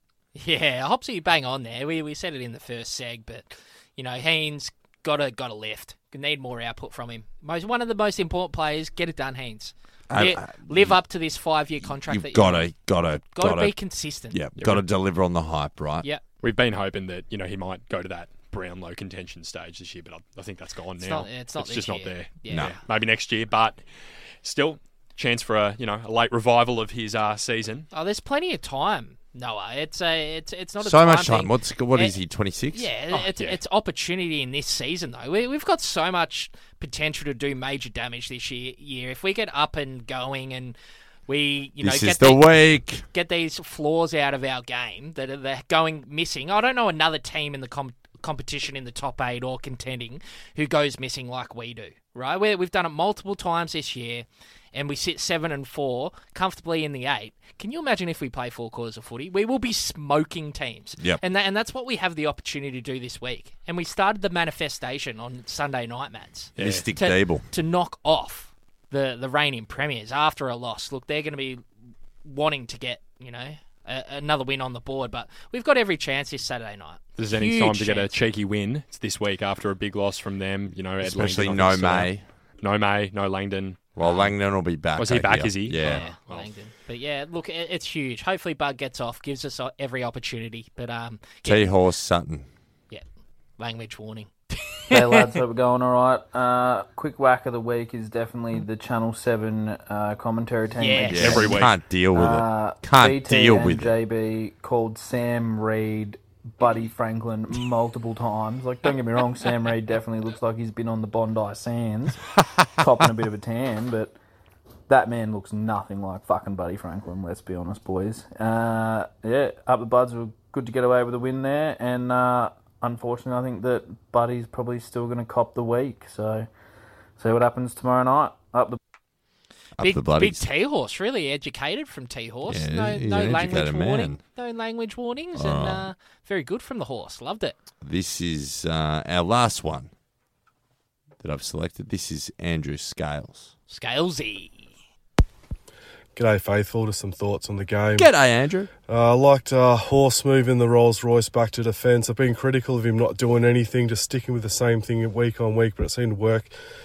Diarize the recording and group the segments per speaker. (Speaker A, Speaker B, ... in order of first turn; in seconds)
Speaker A: 0.3-12.7, 13.3-14.4, 21.0-22.7, 27.9-32.1, 32.7-40.8, 41.3-71.6, 72.2-78.1, 84.0-84.3, 85.8-91.7, 93.6-95.3, 100.8-101.5, 129.8-137.6, 143.7-144.7
Speaker B: 10.1-11.0, 11.8-16.1, 22.5-22.8, 30.8-32.9, 41.8-43.0, 66.6-67.5, 81.0-82.2, 84.0-86.0, 91.4-92.5, 101.1-103.9, 129.8-130.4, 132.4-134.2, 135.3-135.9, 137.8-139.9, 141.2-143.5, 147.9-148.7
Speaker C: 14.6-14.8, 16.4-23.8, 24.4-27.9, 33.1-33.6, 66.5-66.9, 77.2-83.8, 85.0-86.5, 101.2-101.7
Speaker D: 94.9-114.2, 114.9-126.5, 127.2-128.8
Speaker E: 146.2-148.1, 148.9-156.5